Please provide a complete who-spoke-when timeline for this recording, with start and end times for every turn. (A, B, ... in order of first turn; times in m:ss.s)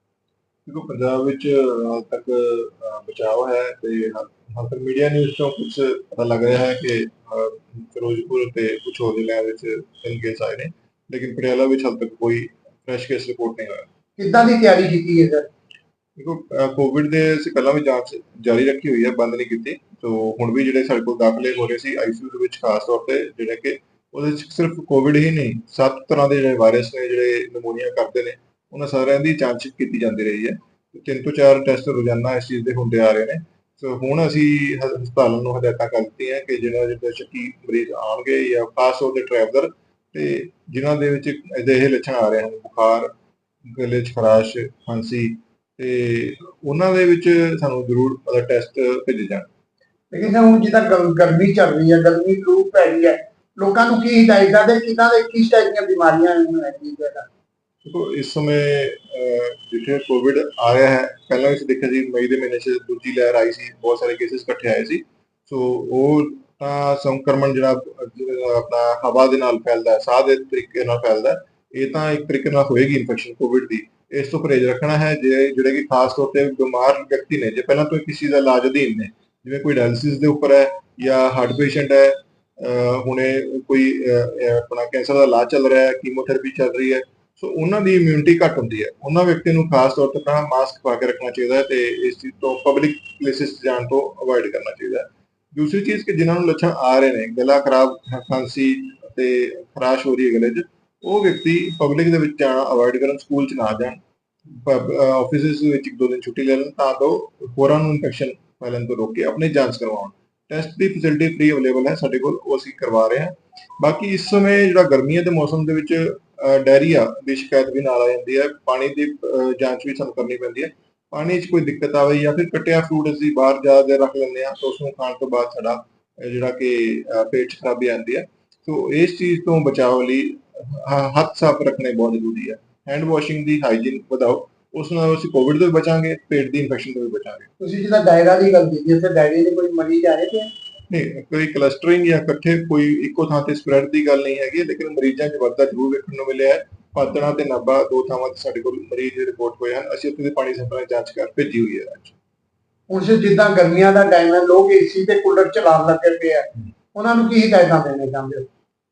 0:00.7-0:13.9 A
0:14.2-0:15.5 B
0:16.2-0:43.1 A
0:43.7-0:49.5 A
0:50.1-0:57.3 B
0:57.8-1:44.0 A
1:44.5-2:17.5 A
2:17.6-2:20.5 B
2:20.9-2:32.2 A
2:32.9-2:38.5 B